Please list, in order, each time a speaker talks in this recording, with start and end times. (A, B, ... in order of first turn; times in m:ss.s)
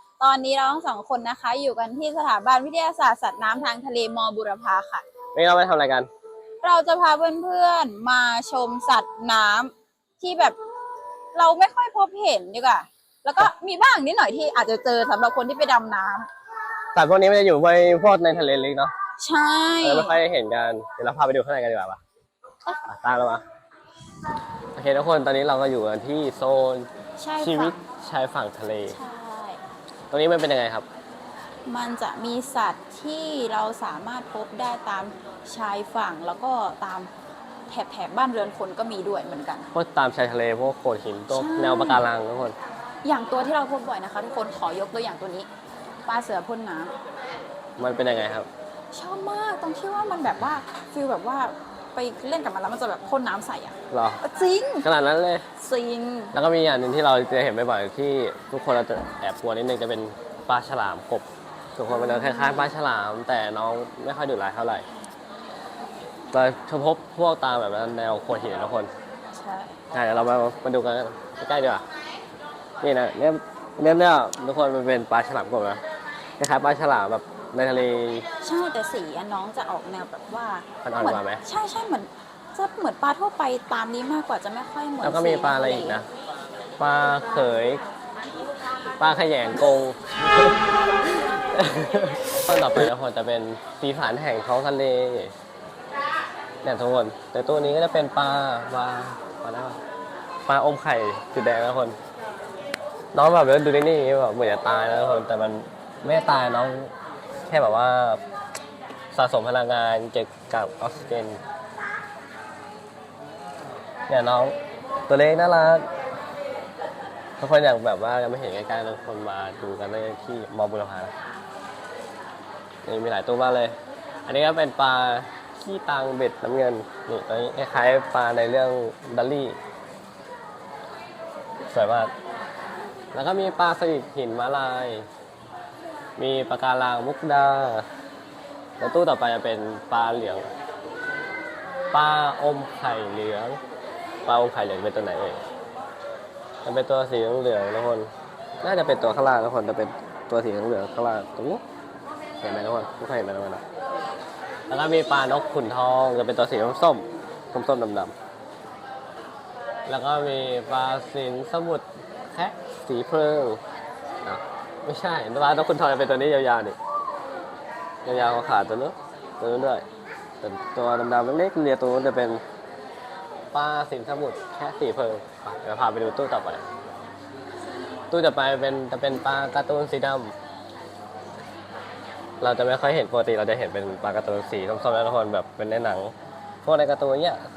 0:00.2-0:05.0 A
0:05.3-0:06.1 B
0:06.6-0:10.6 A
0:11.3-0:16.3 A
0:16.9-0:18.9 B
0:19.2-0:20.2 A
0:19.8-0:22.0 B
0:22.8-0:23.4 B
0:24.8-0:26.9 B
0:27.2-0:27.8 A
0:27.4-0:29.0 B
0:28.9-0:29.6 A
0:30.1-0:30.9 B
0:31.6-0:37.1 A
0:37.7-0:39.7 A
0:39.7-0:42.6 B
0:41.3-0:42.0 A
0:43.0-0:45.5 A
0:46.0-0:46.9 A
0:47.8-0:48.5 B
0:48.9-0:54.9 A
0:53.9-0:54.2 B
0:54.8-0:55.4 B
0:55.6-0:56.3 A
0:56.3-1:04.8 B
1:01.9-1:02.7 A
1:06.3-1:08.9 B
1:09.3-1:09.8 A
1:09.9-1:11.8 B
1:12.8-1:15.8 B
1:16.4-1:18.2 B
1:18.4-1:26.0 A
1:20.8-1:21.4 B
1:25.0-1:26.1 B
1:26.8-1:27.8 B
1:29.0-1:30.6 B
1:31.2-1:35.3 B
1:36.6-1:39.8 B
1:40.5-1:42.0 B
1:43.1-1:46.9 B
1:47.5-1:48.2 B
1:49.1-1:51.4 B
1:54.1-1:54.5 B
1:55.1-1:55.8 B
1:57.4-2:01.1 B
2:02.8-2:09.6 B
2:11.7-2:12.1 B
2:13.1-2:15.1 B
2:16.2-2:17.8 B
2:18.8-2:20.5 B
2:21.9-2:23.6 B
2:24.2-2:25.4 B
2:26.6-2:28.1 B
2:28.6-2:31.6 B
2:32.4-2:33.6 B
2:34.7-2:38.1 B
2:39.8-2:43.6 B
2:44.2-2:46.8 B
2:48.0-2:49.8 B
2:50.4-2:52.4 B
2:53.5-2:56.6 B
2:58.1-3:00.3 B
3:02.4-3:07.4 B